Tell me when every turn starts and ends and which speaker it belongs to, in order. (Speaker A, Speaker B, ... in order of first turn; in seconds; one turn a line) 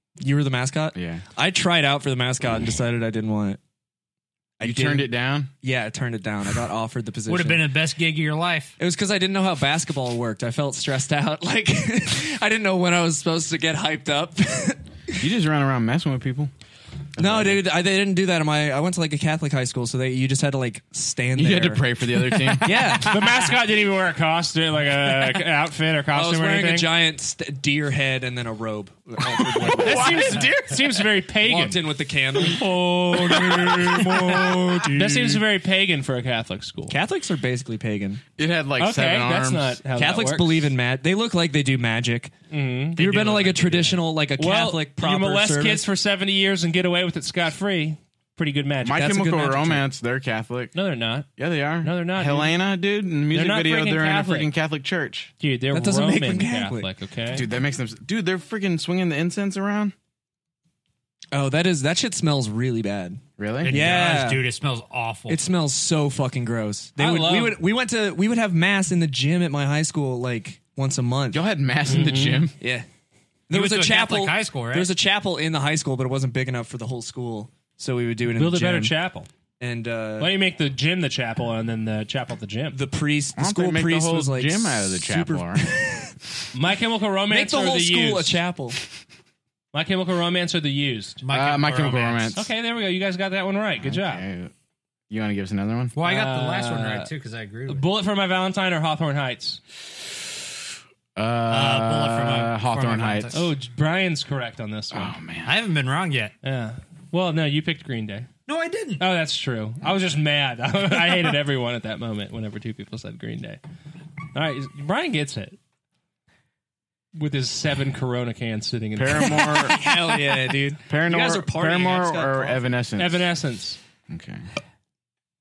Speaker A: 0.2-3.6
Speaker B: 0.9-1.2
Speaker A: 4.6-5.1
Speaker B: 4.6-5.5
Speaker A: 5.6-7.7
Speaker C: 7.3-8.8
Speaker A: 8.8-15.1
Speaker B: 15.2-16.5
Speaker B: 17.1-17.6
Speaker A: 17.2-21.8
Speaker B: 21.4-23.0
Speaker A: 22.5-23.5
Speaker D: 23.0-26.9
Speaker A: 26.1-30.4
Speaker B: 29.6-30.8
Speaker D: 29.8-31.8
Speaker A: 31.4-35.3
Speaker D: 33.2-37.0
Speaker B: 33.5-33.8
Speaker B: 34.9-35.4
Speaker A: 36.9-38.2
Speaker B: 38.4-39.8
Speaker D: 38.8-40.7
Speaker A: 39.9-42.3
Speaker D: 42.5-49.2
Speaker A: 43.0-45.8
Speaker B: 48.8-50.7
Speaker A: 48.9-49.9
Speaker D: 50.8-51.3
Speaker B: 51.4-55.3
Speaker D: 51.8-52.5
Speaker D: 53.3-54.5
Speaker D: 55.4-57.5
Speaker A: 55.7-56.9
Speaker B: 57.3-60.0
Speaker A: 61.3-64.5
Speaker B: 63.4-63.8
Speaker C: 63.6-65.4
Speaker A: 65.3-71.4
Speaker D: 67.0-67.6
Speaker B: 71.3-72.5
Speaker D: 71.9-72.5
Speaker A: 72.6-72.9
Speaker A: 73.5-78.9
Speaker C: 73.5-74.9
Speaker D: 78.3-79.3
Speaker A: 79.6-80.3
Speaker D: 80.2-82.8
Speaker A: 82.7-86.1
Speaker B: 83.4-85.7
Speaker D: 86.5-88.4
Speaker A: 87.3-88.8
Speaker D: 89.7-91.2
Speaker C: 91.2-92.4
Speaker B: 91.3-92.5
Speaker D: 92.3-94.3
Speaker B: 93.8-94.5
Speaker B: 95.1-95.9
Speaker C: 96.0-97.9
Speaker D: 96.0-97.1
Speaker D: 97.7-99.6
Speaker B: 101.2-103.3
Speaker C: 101.5-103.5
Speaker D: 103.3-105.2
Speaker B: 104.9-105.6
Speaker C: 105.5-106.3
Speaker D: 106.4-108.3
Speaker C: 108.5-109.0
Speaker D: 109.0-113.6
Speaker D: 114.3-115.6
Speaker D: 117.2-119.7
Speaker B: 119.0-119.9
Speaker A: 119.5-122.6
Speaker B: 120.9-123.3
Speaker D: 123.0-123.8
Speaker B: 124.1-124.4